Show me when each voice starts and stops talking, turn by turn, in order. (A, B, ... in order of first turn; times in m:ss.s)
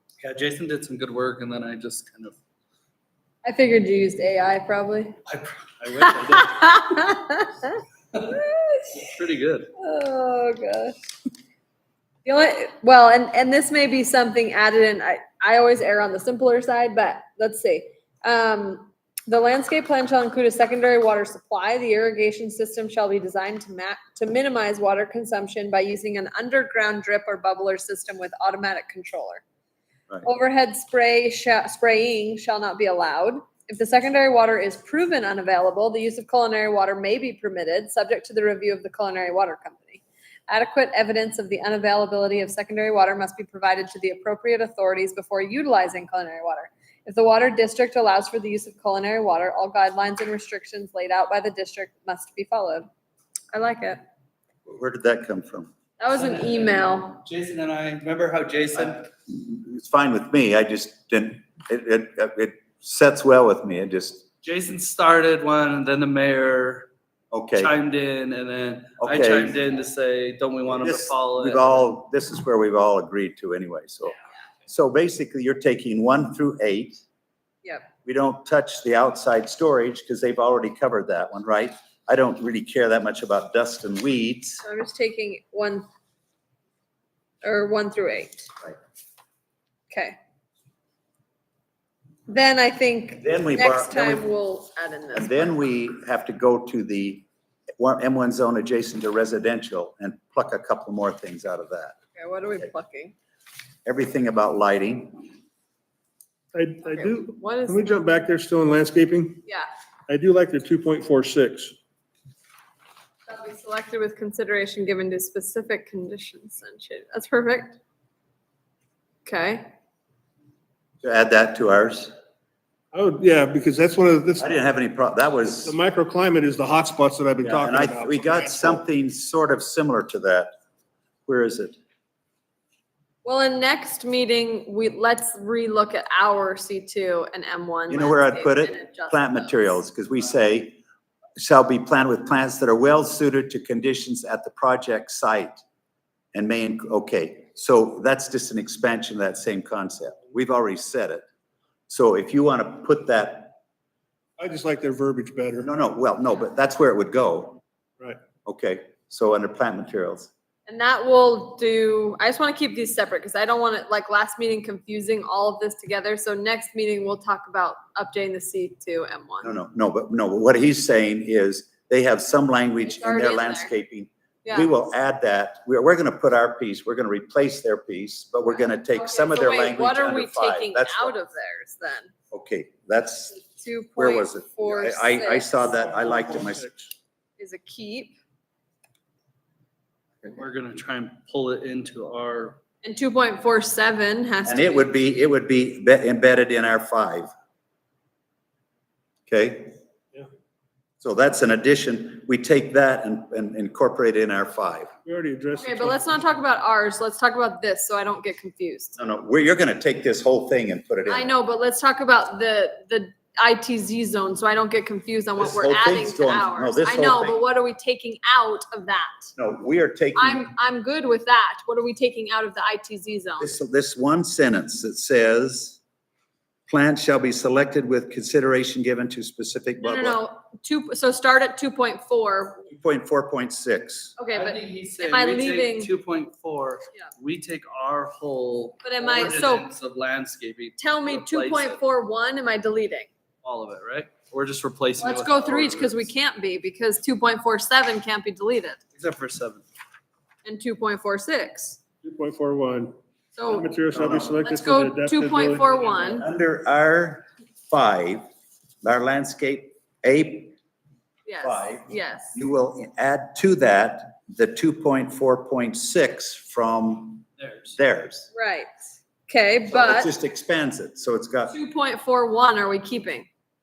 0:00.2-0:02.4 A
0:03.4-0:05.2 B
0:05.3-0:06.8 A
0:06.0-0:08.9 B
0:08.9-0:09.7 A
0:09.8-0:11.0 B
0:12.2-0:29.4 B
0:30.2-0:52.9 B
0:53.5-0:54.0 B
0:54.7-0:55.7 C
0:56.0-0:57.2 B
0:56.1-0:59.1 A
0:58.8-1:04.2 C
1:04.4-1:06.9 A
1:07.3-1:07.7 C
1:07.6-1:11.8 A
1:09.0-1:09.6 C
1:10.7-1:14.2 C
1:14.7-1:17.0 C
1:18.0-1:24.6 C
1:24.6-1:25.9 B
1:27.4-1:28.5 B
1:29.9-1:30.2 B
1:32.3-1:35.6 B
1:33.2-1:34.3 C
1:35.1-1:37.3 C
1:37.8-1:42.0 C
1:42.2-1:43.2 B
1:43.9-1:45.2 C
1:46.5-1:49.4 D
1:46.9-1:48.0 B
1:50.1-1:51.8 D
1:53.3-1:57.8 B
1:59.3-1:59.6 B
2:01.0-2:02.1 C
2:02.9-2:04.5 D
2:04.4-2:05.8 C
2:05.6-2:08.8 D
2:07.4-2:10.5 C
2:11.3-2:11.8 C
2:13.2-2:19.8 B
2:17.9-2:20.8 C
2:21.4-2:25.6 C
2:26.3-2:31.2 C
2:31.9-2:33.6 C
2:34.4-2:35.7 D
2:35.6-2:37.6 C
2:38.4-2:40.3 C
2:40.7-2:49.5 B
2:49.4-3:01.2 C
2:52.8-2:53.7 B
2:54.4-2:54.7 B
2:58.6-3:02.1 B
3:02.3-3:03.4 C
3:03.5-3:05.6 B
3:04.0-3:06.7 C
3:05.6-3:06.9 D
3:07.4-3:08.2 B
3:10.3-3:12.6 A
3:12.8-3:14.9 B
3:14.5-3:17.3 C
3:19.3-3:19.8 C
3:21.0-3:24.9 C
3:25.0-3:26.1 D
3:25.6-3:29.0 B
3:29.0-3:31.3 C
3:31.1-3:39.3 B
3:35.4-3:37.4 C
3:39.4-3:40.4 C
3:40.2-3:43.5 B
3:43.4-3:45.8 C
3:46.7-3:50.2 C
3:49.8-3:52.6 B
3:52.7-3:54.2 C
3:54.2-3:55.9 B
3:54.3-4:01.8 A
3:58.8-3:59.7 B
4:00.8-4:03.1 B
4:03.4-4:06.1 A
4:05.0-4:08.8 B
4:09.0-4:09.6 A
4:10.4-4:11.8 B
4:12.0-4:13.0 D
4:13.4-4:13.7 B
4:13.5-4:16.0 D
4:13.9-4:14.3 C
4:14.4-4:16.3 B
4:16.1-4:18.3 C
4:18.8-4:20.6 C
4:21.3-4:22.4 B
4:21.4-4:28.3 C
4:27.4-4:27.8 A
4:28.3-4:28.7 B
4:29.3-4:30.1 B
4:29.7-4:31.6 C
4:31.5-4:33.3 B